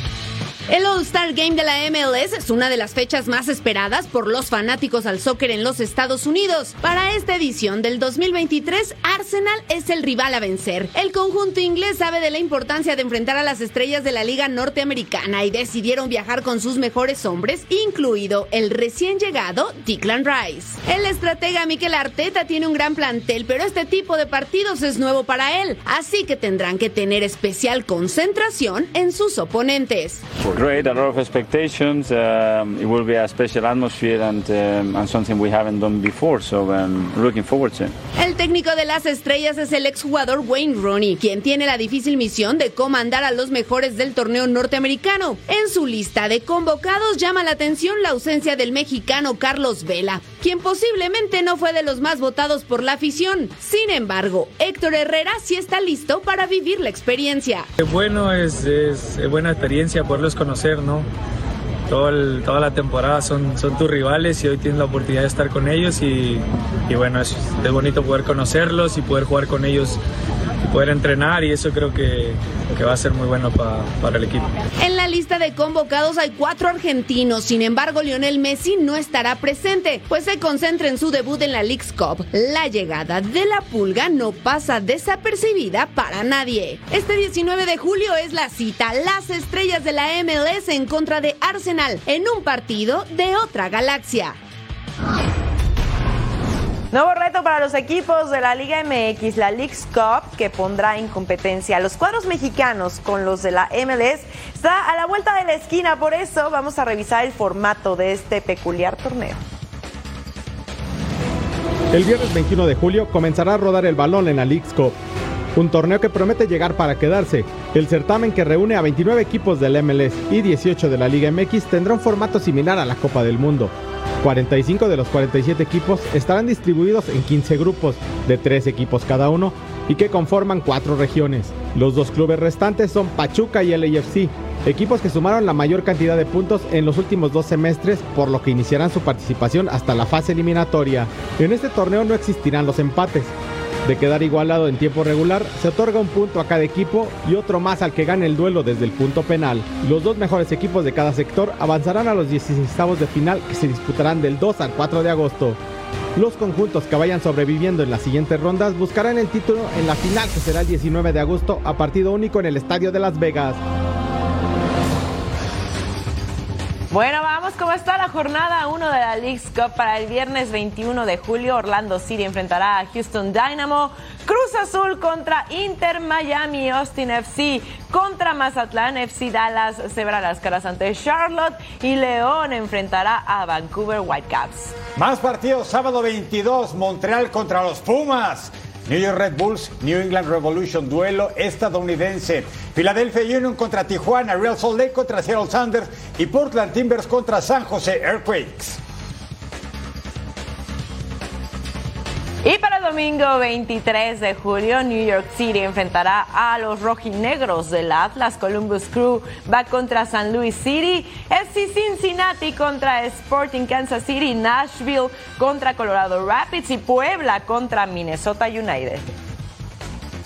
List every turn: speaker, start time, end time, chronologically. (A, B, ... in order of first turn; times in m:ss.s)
0:00.7-0:30.2 A
0:30.4-0:38.0 B
0:38.2-0:57.7 A
0:57.8-1:01.1 C
1:01.9-1:10.0 C
1:10.6-1:14.5 C
1:14.8-1:34.4 A
1:36.9-1:49.4 D
1:51.9-1:55.0 E
1:55.6-2:23.3 E
2:23.8-2:35.6 E
2:36.2-2:43.6 E
2:46.9-3:04.7 D
3:05.0-3:18.8 F
3:22.4-3:39.1 D